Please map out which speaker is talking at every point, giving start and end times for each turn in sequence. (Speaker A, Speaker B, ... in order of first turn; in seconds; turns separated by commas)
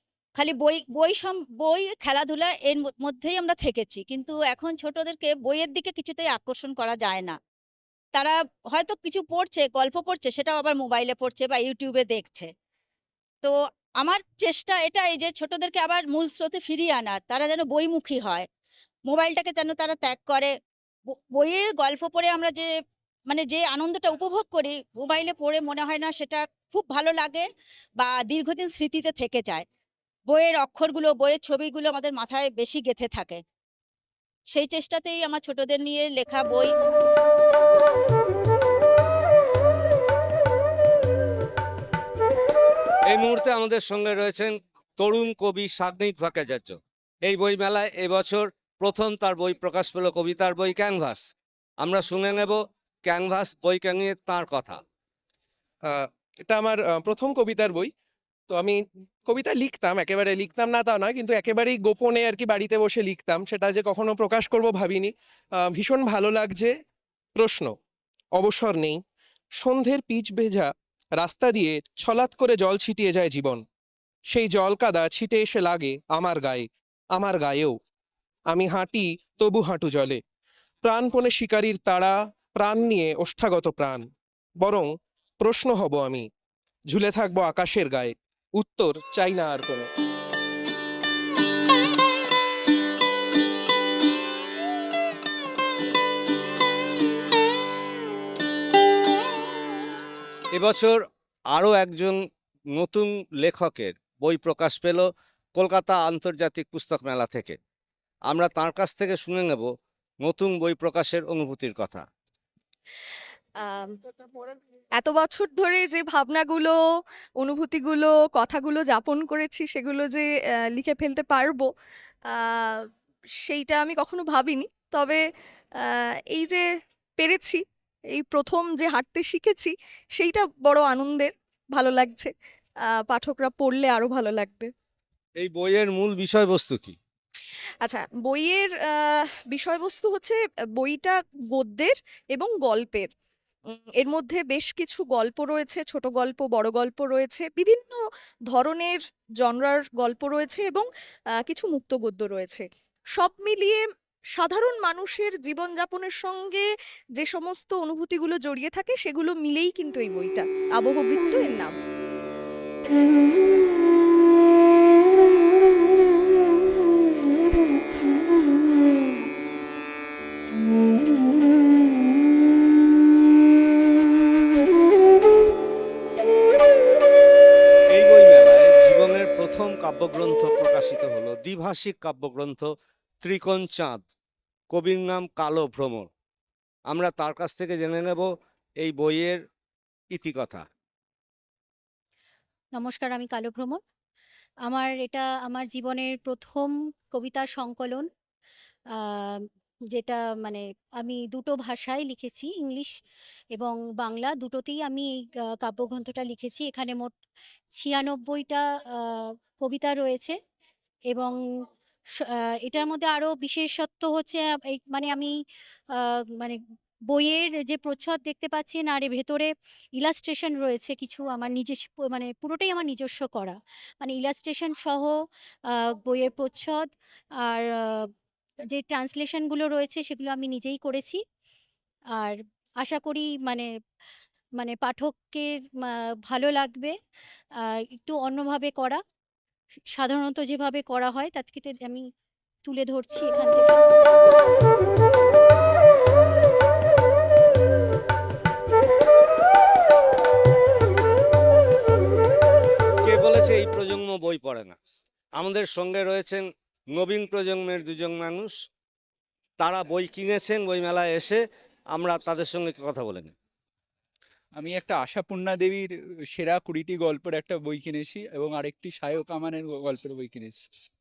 Speaker A: 0.3-7.4, Speaker A: 8.1-12.5, Speaker A: 13.4-18.5, Speaker A: 19.1-20.5, Speaker A: 21.1-22.7, Speaker A: 23.3-29.6, Speaker A: 30.3-33.4, Speaker A: 34.5-36.8, Speaker B: 43.1-51.2, Speaker B: 51.8-54.8, Speaker C: 56.5-57.7, Speaker C: 59.3-60.9, Speaker C: 61.7-65.0, Speaker C: 65.8-66.6, Speaker C: 69.7-70.3, Speaker C: 71.2-73.5, Speaker C: 74.8-75.3, Speaker C: 78.6-78.9, Speaker C: 79.5-80.1, Speaker C: 80.9-82.1, Speaker C: 82.6-83.9, Speaker C: 85.5-86.2, Speaker C: 86.9-87.9, Speaker C: 88.6-89.7, Speaker B: 100.5-101.0, Speaker B: 101.5-102.2, Speaker B: 102.7-107.6, Speaker B: 108.3-109.7, Speaker B: 110.2-112.0, Speaker D: 113.5-114.0, Speaker D: 114.9-116.8, Speaker D: 117.4-121.7, Speaker D: 122.2-122.8, Speaker D: 123.4-125.2, Speaker D: 125.8-126.6, Speaker D: 127.2-134.7, Speaker B: 135.4-137.0, Speaker D: 137.8-143.1, Speaker D: 143.7-150.8, Speaker D: 151.3-153.8, Speaker D: 154.3-161.8, Speaker B: 177.9-182.7, Speaker B: 183.2-184.0, Speaker B: 184.7-186.1, Speaker B: 186.9-188.3, Speaker B: 188.8-189.4, Speaker B: 190.1-190.6, Speaker E: 192.7-193.8, Speaker E: 194.7-198.1, Speaker E: 199.0-199.4, Speaker E: 199.9-202.9, Speaker E: 203.5-207.1, Speaker E: 207.7-210.3, Speaker E: 211.1-211.3, Speaker E: 212.6-215.3, Speaker E: 216.0-216.6, Speaker E: 217.1-225.1, Speaker E: 225.7-226.9, Speaker E: 227.4-228.1, Speaker E: 228.7-231.2, Speaker E: 232.2-233.7, Speaker E: 234.6-236.9, Speaker E: 237.6-239.0, Speaker E: 239.9-242.1, Speaker E: 242.6-243.8, Speaker B: 253.0-254.8, Speaker B: 255.4-258.5, Speaker B: 259.6-261.4, Speaker B: 261.9-263.3, Speaker F: 264.6-270.6